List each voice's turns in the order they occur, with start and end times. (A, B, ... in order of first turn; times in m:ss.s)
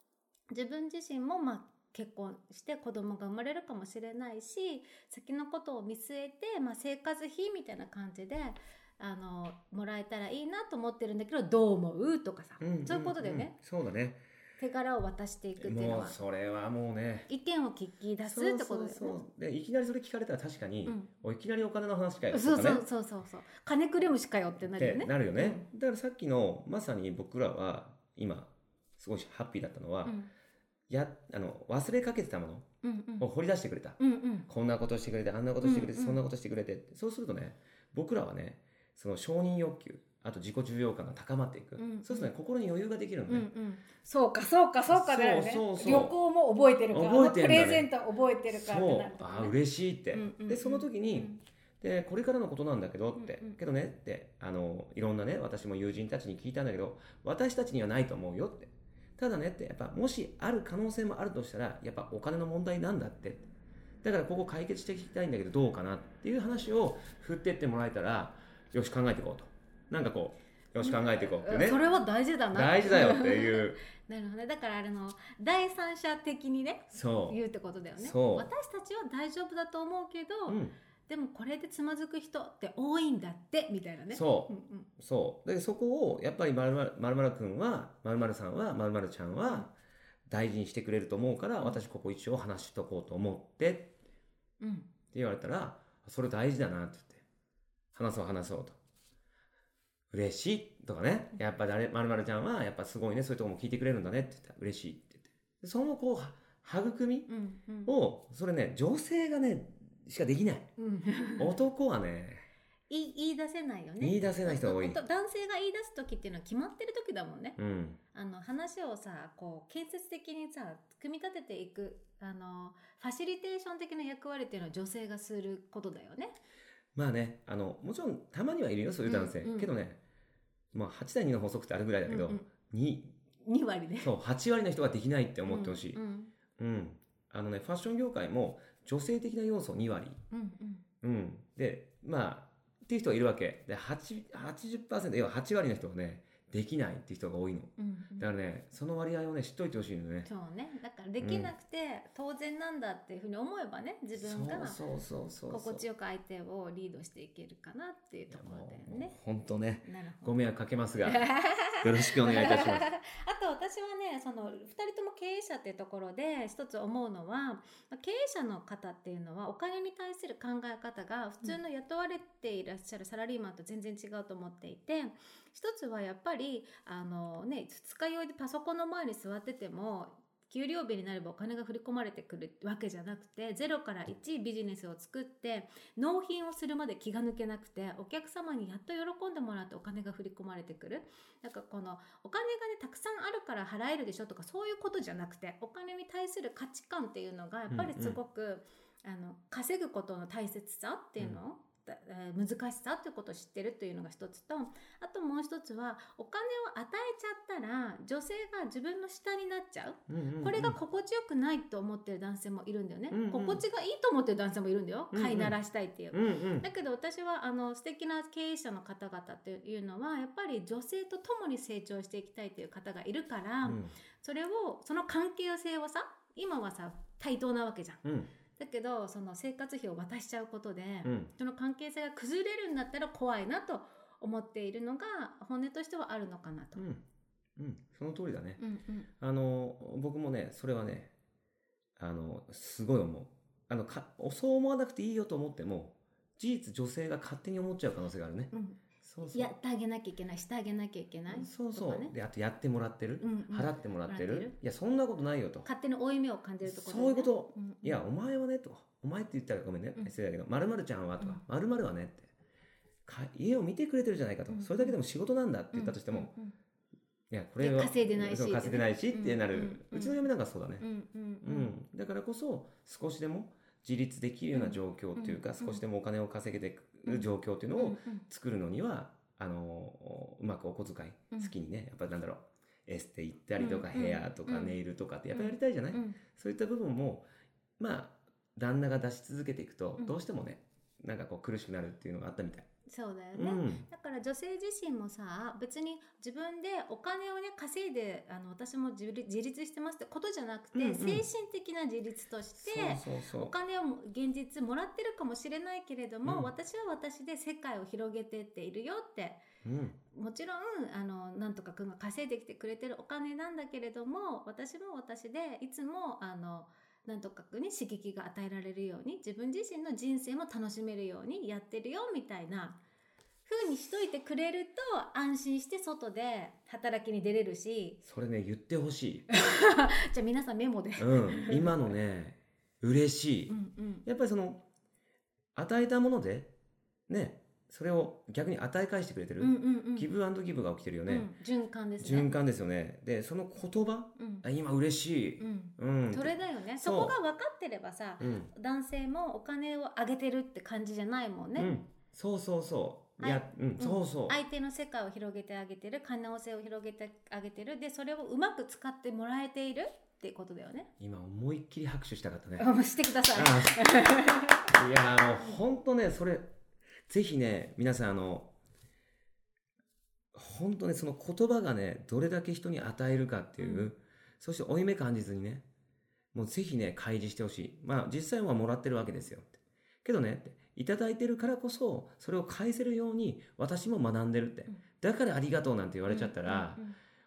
0:00.5-0:13.5 A
0:12.6-0:14.2 B
0:14.6-0:16.2 A
0:15.6-0:17.3 B
0:17.3-0:19.2 A
0:18.2-0:22.8 B
0:22.3-0:25.6 A
0:24.6-0:30.2 B
0:30.0-0:30.3 A
0:30.9-0:32.6 B
0:32.8-0:33.3 A
0:33.2-0:43.5 B
0:34.0-0:34.5 A
0:35.6-0:36.2 A
0:41.8-0:42.3 A
0:43.3-0:49.6 A
0:44.9-0:46.2 B
0:46.9-0:47.9 B
0:48.5-1:03.5 B
0:50.1-0:51.4 A
0:53.2-0:53.6 A
1:04.0-1:11.8 B
1:10.8-1:24.9 A
1:12.5-1:13.8 B
1:16.9-1:17.4 B
1:18.0-1:18.5 B
1:20.5-1:20.8 B
1:24.1-1:29.7 B
1:30.3-1:33.9 B
1:34.6-1:34.9 A
1:35.1-1:37.2 B
1:37.9-1:38.8 B
1:40.1-1:47.3 B
1:47.3-1:47.9 A
1:47.8-1:50.7 B
1:50.8-1:51.6 A
1:51.4-1:52.5 B
1:52.9-1:57.6 A
1:54.0-1:55.0 B
1:57.6-1:58.0 B
1:58.1-2:06.3 A
2:06.9-2:10.0 B
2:09.0-2:09.7 A
2:10.7-2:13.1 B
2:12.1-2:12.5 A
2:13.4-2:14.1 A
2:14.0-2:16.0 B
2:15.4-2:16.3 A
2:16.6-2:20.2 B
2:20.3-2:20.8 A
2:21.0-2:30.3 B
2:27.8-2:28.3 A
2:30.2-2:34.8 A
2:31.2-2:31.5 B
2:34.1-2:35.8 B
2:35.5-2:39.2 A
2:38.3-2:42.9 B
2:39.8-2:40.4 A
2:41.0-3:48.0 A
3:17.7-3:18.2 B
3:30.1-3:30.8 B
3:33.1-3:33.6 B
3:35.1-3:35.6 B
3:36.1-3:36.7 B
3:43.6-3:43.9 B
3:48.0-3:48.3 B
3:48.6-3:56.8 A
3:51.0-3:51.3 B
3:56.8-3:57.0 B
3:57.6-3:58.6 B
3:58.6-3:59.1 A
3:59.2-4:01.1 B
4:02.0-4:08.5 B
4:08.5-4:12.1 A
4:09.0-4:09.5 B
4:11.3-4:15.7 B
4:13.2-4:14.5 A
4:15.6-4:18.0 A
4:16.6-4:22.3 B
4:23.0-4:26.3 B
4:24.5-4:25.0 A
4:25.7-4:26.5 A
4:27.3-4:30.9 B
4:27.6-4:30.2 A
4:30.8-4:31.7 A
4:31.4-4:47.3 B
4:34.5-4:35.8 A
4:37.0-4:38.2 A
4:43.6-4:44.8 A
4:45.3-4:46.2 A
4:47.8-4:52.6 B
4:52.9-5:09.4 A
4:53.3-4:53.9 B
5:00.7-5:01.3 B
5:02.6-5:03.5 B
5:06.2-5:06.5 B
5:09.6-5:10.0 B
5:10.1-5:22.8 A
5:23.5-5:28.0 A
5:28.0-5:29.3 B
5:29.3-5:31.9 A
5:31.0-5:34.6 B
5:33.5-5:34.0 A
5:35.5-5:36.5 B
5:37.1-5:41.3 B
5:39.4-5:40.1 A
5:41.0-5:42.4 A
5:42.0-5:47.2 B
5:44.2-5:44.5 A
5:45.4-5:51.8 A
5:48.2-5:48.5 B
5:51.6-5:54.4 B
5:53.2-6:00.9 A
6:01.0-6:02.7 B
6:02.6-6:04.7 A
6:03.3-6:03.9 B
6:04.7-6:06.5 B
6:07.1-6:08.5 B
6:10.3-6:15.6 B
6:13.6-6:13.9 A
6:16.3-6:26.8 B
6:26.1-6:27.0 A